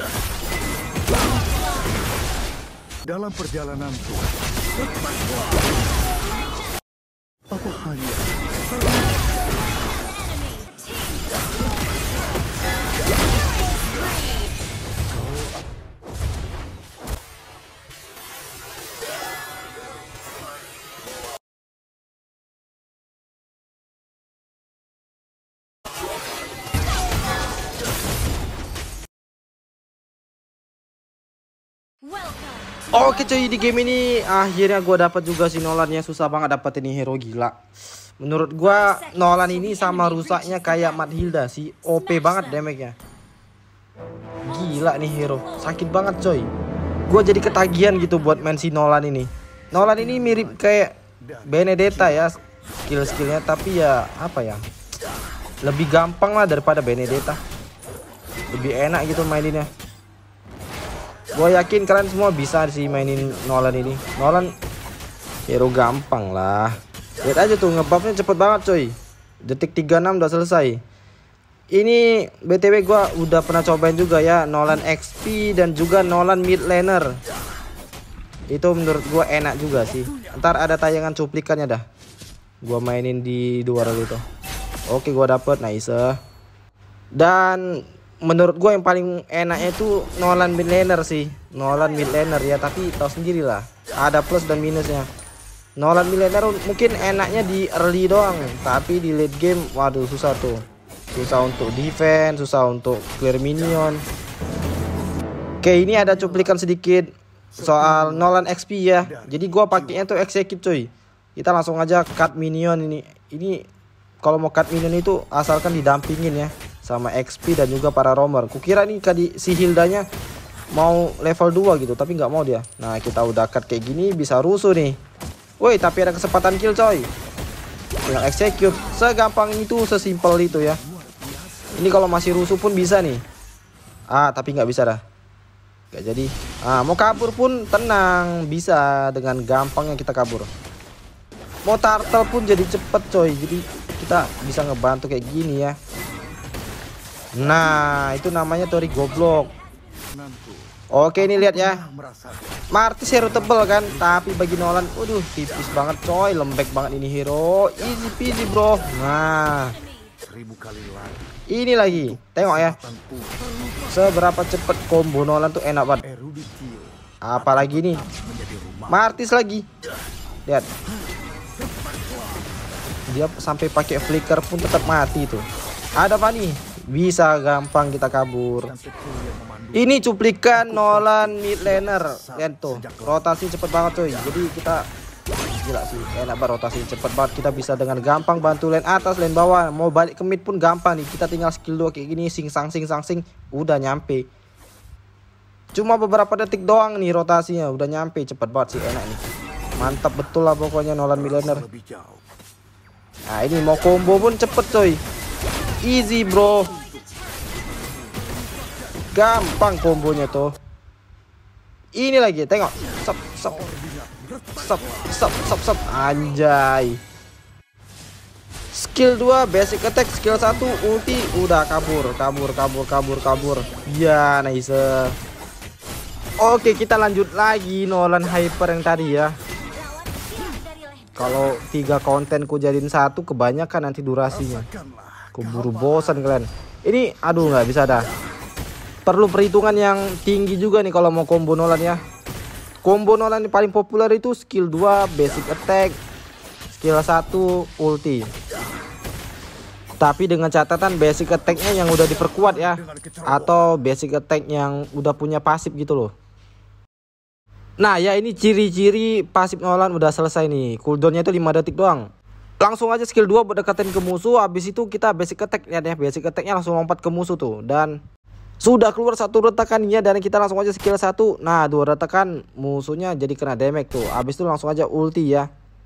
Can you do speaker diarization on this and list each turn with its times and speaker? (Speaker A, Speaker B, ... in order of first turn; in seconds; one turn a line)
Speaker A: 3.0-4.2
Speaker A: 7.5-8.2
Speaker B: 32.9-37.5
Speaker B: 38.2-42.9
Speaker B: 44.4-46.5
Speaker B: 47.1-50.9
Speaker A: 49.9-50.6
Speaker A: 51.2-52.4
Speaker B: 51.5-52.4
Speaker B: 52.9-54.6
Speaker B: 55.6-57.4
Speaker B: 58.5-59.7
Speaker B: 61.3-64.5
Speaker A: 63.2-64.0
Speaker B: 65.5-70.8
Speaker B: 71.7-77.2
Speaker B: 78.5-81.8
Speaker B: 82.6-84.2
Speaker B: 84.9-86.2
Speaker B: 87.1-95.1
Speaker B: 95.8-100.6
Speaker B: 101.1-104.0
Speaker B: 105.6-113.6
Speaker A: 107.5-108.3
Speaker A: 109.0-110.1
Speaker B: 114.2-120.0
Speaker B: 120.7-125.0
Speaker B: 125.6-127.1
Speaker B: 128.1-130.8
Speaker A: 130.5-131.8
Speaker B: 131.8-133.2
Speaker B: 134.1-135.0
Speaker B: 135.9-140.5
Speaker B: 141.6-145.8
Speaker B: 147.3-149.5
Speaker A: 150.1-150.7
Speaker B: 150.9-151.8
Speaker A: 151.2-152.6
Speaker B: 152.7-159.8
Speaker A: 153.4-154.2
Speaker A: 160.2-161.3
Speaker B: 161.5-162.8
Speaker A: 161.9-163.4
Speaker B: 163.9-166.0
Speaker A: 166.0-169.1
Speaker B: 167.2-168.0
Speaker B: 168.9-169.6
Speaker A: 171.6-172.4
Speaker B: 173.1-175.4
Speaker B: 175.9-178.7
Speaker A: 178.7-180.0
Speaker B: 179.7-184.9
Speaker A: 180.6-183.2
Speaker B: 185.6-194.3
Speaker A: 188.5-188.8
Speaker B: 195.7-199.2
Speaker B: 199.8-201.6
Speaker A: 201.3-202.2
Speaker B: 203.3-205.0
Speaker B: 205.8-206.8
Speaker B: 209.1-210.6
Speaker B: 211.9-213.6
Speaker A: 213.5-215.3
Speaker B: 214.6-217.0
Speaker B: 218.7-225.2
Speaker B: 226.4-229.3
Speaker B: 231.2-234.7
Speaker A: 234.4-236.1
Speaker B: 235.3-238.1
Speaker B: 239.1-242.0
Speaker B: 242.8-245.9
Speaker B: 246.8-248.3
Speaker B: 250.0-256.1
Speaker A: 251.5-253.7
Speaker B: 257.8-262.1
Speaker B: 262.6-268.0
Speaker B: 268.6-275.5